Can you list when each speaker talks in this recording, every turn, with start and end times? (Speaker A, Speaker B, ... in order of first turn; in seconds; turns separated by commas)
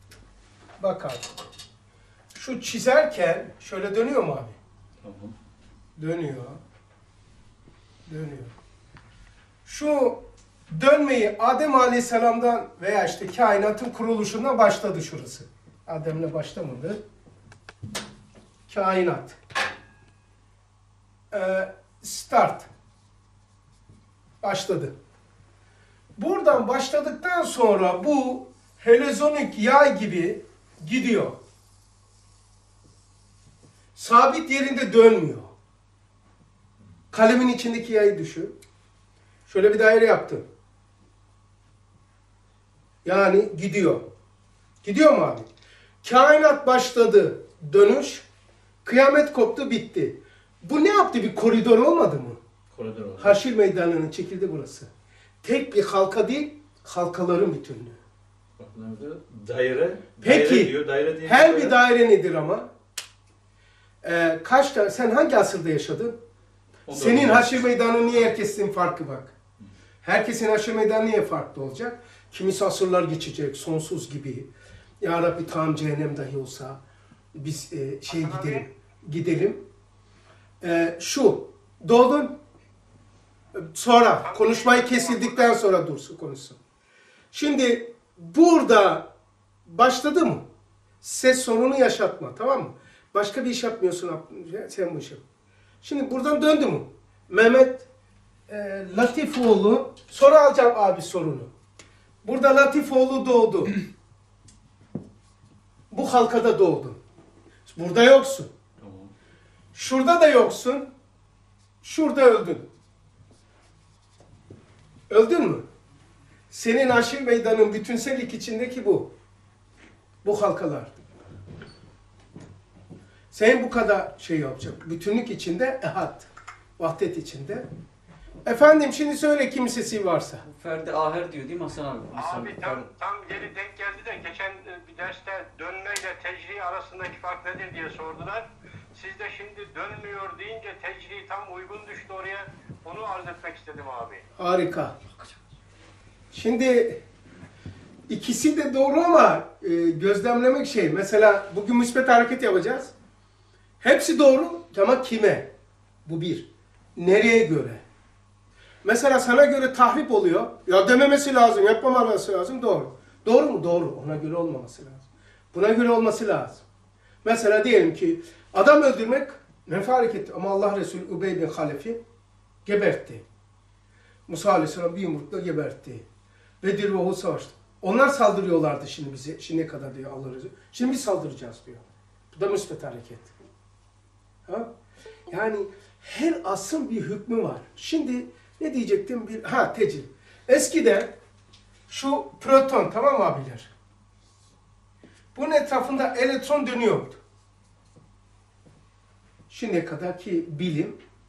Speaker A: 0.8-1.3, Speaker A: 2.4-4.6, Speaker B: 5.0-5.3, Speaker A: 6.0-6.6, Speaker A: 8.1-8.5, Speaker A: 9.7-17.0, Speaker A: 18.7-19.4, Speaker A: 21.3-22.7, Speaker A: 24.4-24.9, Speaker A: 26.2-31.4, Speaker A: 34.0-35.5, Speaker A: 37.1-38.5, Speaker A: 39.5-40.4, Speaker A: 43.0-44.0, Speaker A: 44.8-45.5, Speaker A: 46.0-48.2, Speaker A: 48.9-52.4, Speaker B: 52.7-53.4, Speaker A: 53.2-54.9, Speaker A: 55.4-58.0, Speaker B: 58.6-61.8, Speaker A: 60.2-62.7, Speaker A: 64.0-66.2, Speaker B: 66.9-67.7, Speaker A: 66.9-69.3, Speaker A: 70.0-74.5, Speaker A: 75.0-76.8, Speaker A: 77.3-79.6, Speaker A: 80.6-82.3, Speaker A: 83.6-86.6, Speaker A: 87.3-89.1, Speaker A: 89.7-90.5, Speaker A: 91.0-95.2, Speaker A: 95.8-97.9, Speaker A: 98.5-101.5, Speaker A: 102.2-103.7, Speaker A: 105.9-107.0, Speaker A: 107.7-108.5, Speaker B: 108.8-109.1, Speaker A: 109.8-110.9, Speaker A: 111.8-112.7, Speaker A: 115.1-115.6, Speaker A: 116.5-119.1, Speaker A: 120.2-121.0, Speaker A: 123.3-127.7, Speaker A: 128.5-130.4, Speaker C: 130.4-132.9, Speaker D: 132.1-144.2, Speaker A: 144.4-145.0, Speaker A: 146.3-147.0, Speaker A: 148.1-152.9, Speaker A: 153.8-155.5, Speaker A: 156.1-157.8, Speaker A: 158.8-165.0, Speaker A: 165.5-166.6, Speaker A: 167.2-172.0, Speaker A: 172.7-173.2, Speaker A: 174.3-176.1, Speaker A: 176.6-183.3, Speaker A: 185.3-191.1, Speaker A: 191.9-193.7, Speaker A: 195.3-197.2, Speaker A: 199.5-201.0